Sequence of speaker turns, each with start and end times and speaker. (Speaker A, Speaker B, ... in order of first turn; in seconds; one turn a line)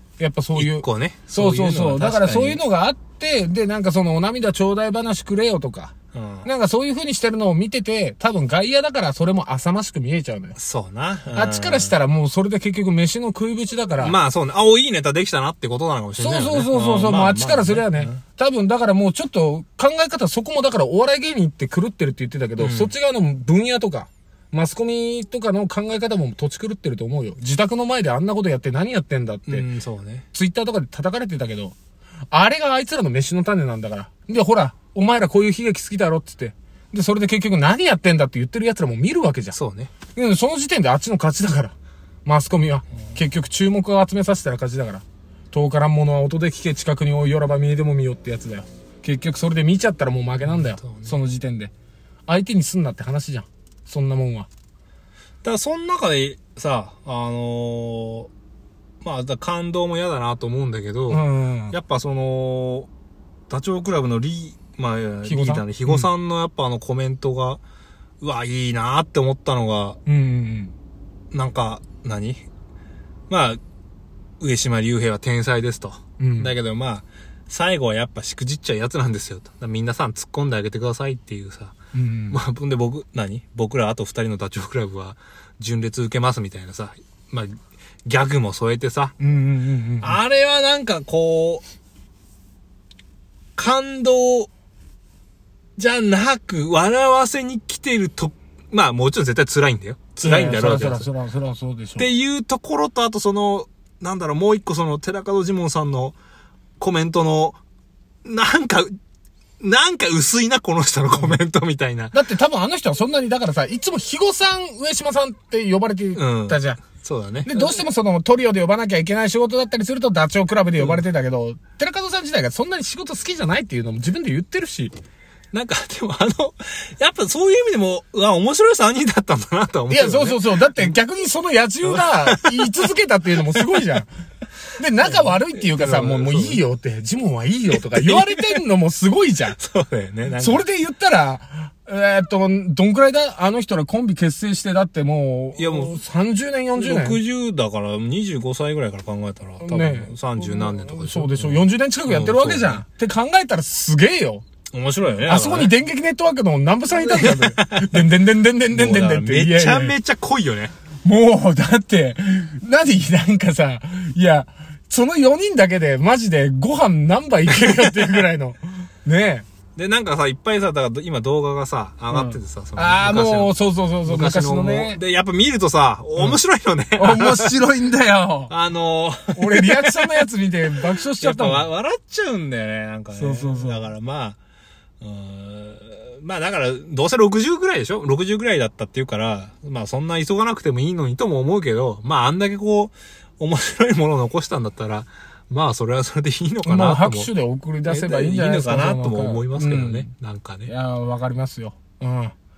Speaker A: 0.2-10.6
Speaker B: 0.5-2.6
Speaker B: 6.1-6.5
Speaker B: 10.6-11.9
Speaker A: 11.3-14.2
Speaker B: 14.0-18.2
Speaker A: 16.2-29.6
Speaker B: 22.6-22.9
Speaker B: 29.5-30.2
Speaker A: 30.3-31.8
Speaker A: 32.3-39.6
Speaker B: 39.5-39.9
Speaker A: 40.1-41.7
Speaker A: 42.2-51.7
Speaker B: 50.4-51.1
Speaker A: 52.3-54.5
Speaker B: 55.4-58.3
Speaker B: 59.0-62.9
Speaker A: 61.1-61.8
Speaker B: 63.5-67.6
Speaker A: 65.2-66.1
Speaker B: 68.2-70.0
Speaker A: 70.0-70.7
Speaker B: 71.3-72.5
Speaker B: 73.3-73.6
Speaker B: 74.4-81.8
Speaker A: 76.2-76.5
Speaker A: 81.9-82.4
Speaker B: 82.3-89.2
Speaker A: 89.2-90.2
Speaker B: 90.0-91.6
Speaker B: 93.5-94.5
Speaker B: 95.8-101.1
Speaker A: 100.2-102.1
Speaker B: 102.0-106.2
Speaker B: 106.8-107.6
Speaker B: 108.2-108.9
Speaker B: 109.6-112.2
Speaker A: 112.1-116.8
Speaker B: 116.1-117.8
Speaker A: 117.4-124.9
Speaker B: 120.8-121.0
Speaker B: 125.5-131.0
Speaker A: 129.9-134.1
Speaker B: 131.8-132.8
Speaker A: 134.8-139.6
Speaker B: 135.0-136.6
Speaker B: 137.7-138.6
Speaker B: 139.5-140.6
Speaker A: 140.4-147.2
Speaker B: 145.6-146.0
Speaker B: 146.7-152.8
Speaker A: 149.6-154.4
Speaker B: 154.7-155.7
Speaker A: 155.2-159.9
Speaker B: 156.9-158.1
Speaker B: 158.7-160.7
Speaker A: 161.0-169.4
Speaker B: 169.8-177.6
Speaker A: 172.1-175.0
Speaker A: 177.0-178.5
Speaker B: 178.5-184.4
Speaker A: 179.3-181.7
Speaker A: 183.1-183.8
Speaker B: 185.0-197.3
Speaker A: 196.6-200.1
Speaker B: 197.8-200.7
Speaker A: 200.7-202.3